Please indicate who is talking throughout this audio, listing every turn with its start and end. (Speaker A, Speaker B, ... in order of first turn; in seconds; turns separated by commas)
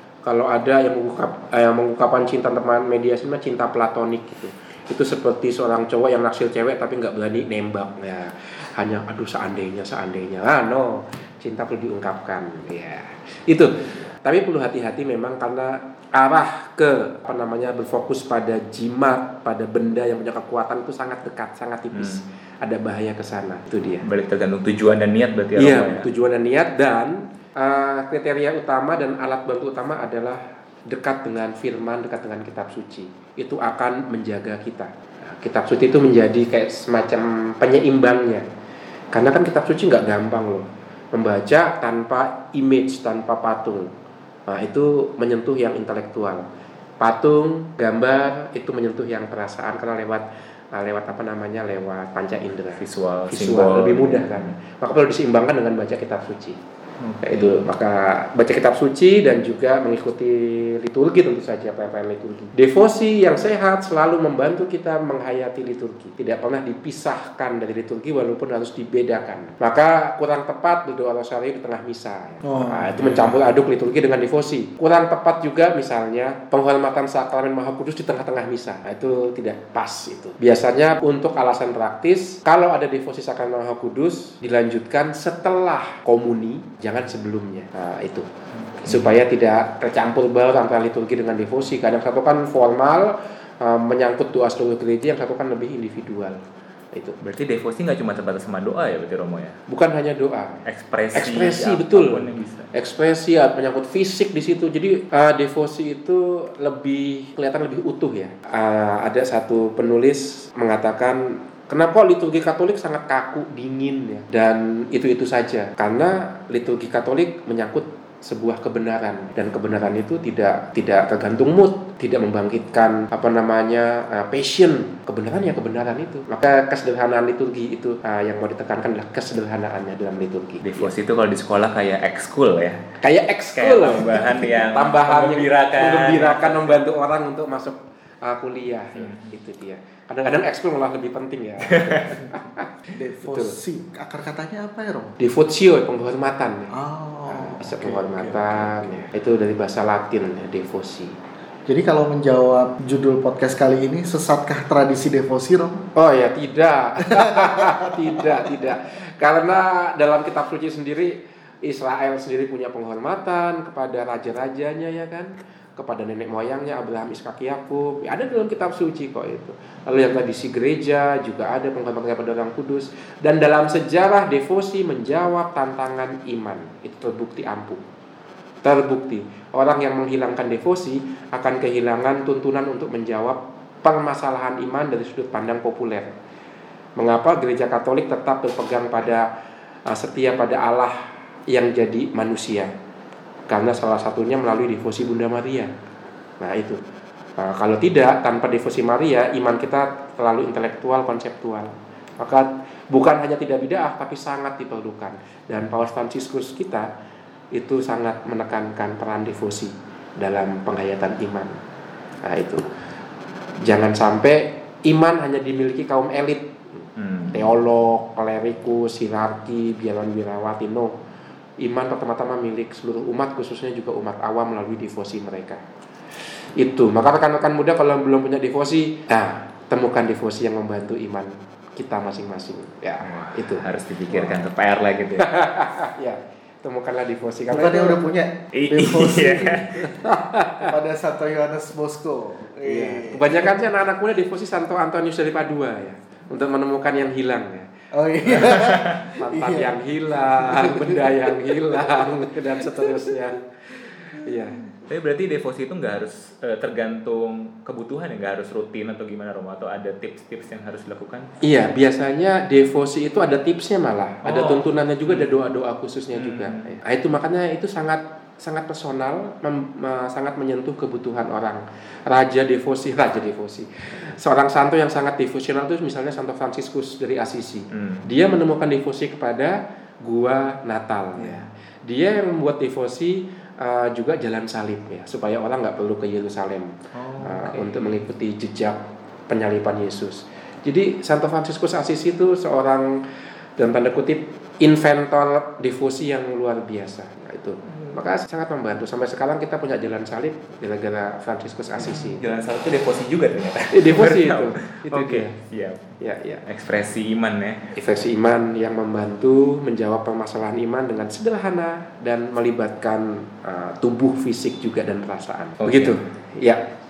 Speaker A: 0.2-24.1, Speaker B: 21.9-22.2, Speaker B: 24.0-26.1, Speaker A: 25.6-38.4, Speaker A: 39.1-43.9, Speaker A: 44.5-46.4, Speaker A: 47.0-56.6, Speaker B: 52.8-54.5, Speaker B: 57.0-57.7, Speaker A: 57.2-88.3, Speaker C: 72.4-73.2, Speaker B: 88.6-89.2, Speaker A: 88.8-96.4, Speaker B: 97.2-99.6, Speaker A: 99.7-100.6, Speaker B: 100.7-102.7, Speaker A: 101.1-130.9, Speaker B: 130.6-132.8, Speaker A: 133.0-142.7, Speaker B: 133.6-136.8, Speaker B: 139.0-139.2, Speaker B: 141.7-142.2, Speaker C: 142.9-145.2, Speaker A: 143.2-143.6, Speaker A: 145.2-146.7, Speaker C: 146.7-149.0, Speaker A: 147.3-151.1, Speaker C: 151.7-155.9, Speaker A: 155.9-177.8, Speaker C: 157.0-158.5, Speaker A: 178.6-186.1, Speaker A: 187.0-189.3, Speaker A: 189.9-190.9, Speaker A: 191.5-192.7, Speaker A: 193.5-195.7, Speaker A: 196.4-196.8, Speaker A: 197.4-206.9, Speaker A: 207.5-211.5, Speaker A: 212.2-212.6, Speaker A: 213.6-216.6, Speaker B: 217.0-217.5, Speaker A: 217.3-220.9, Speaker A: 221.6-225.6, Speaker A: 226.6-234.4, Speaker B: 233.0-235.2, Speaker A: 235.2-238.0, Speaker C: 237.5-239.9, Speaker B: 238.5-239.7, Speaker A: 239.8-240.7, Speaker C: 240.6-243.7, Speaker A: 242.6-247.7, Speaker C: 247.9-253.1, Speaker A: 248.2-253.4, Speaker B: 248.5-249.0, Speaker A: 254.0-254.6, Speaker B: 254.8-261.3, Speaker A: 261.4-293.0, Speaker B: 264.2-265.3, Speaker B: 266.1-266.7, Speaker B: 277.7-278.0, Speaker B: 281.2-281.4, Speaker B: 286.9-288.0, Speaker A: 293.6-302.2, Speaker B: 301.8-305.9, Speaker A: 303.7-305.3, Speaker A: 306.0-306.4, Speaker B: 306.4-307.6, Speaker A: 307.7-316.6, Speaker B: 315.6-316.0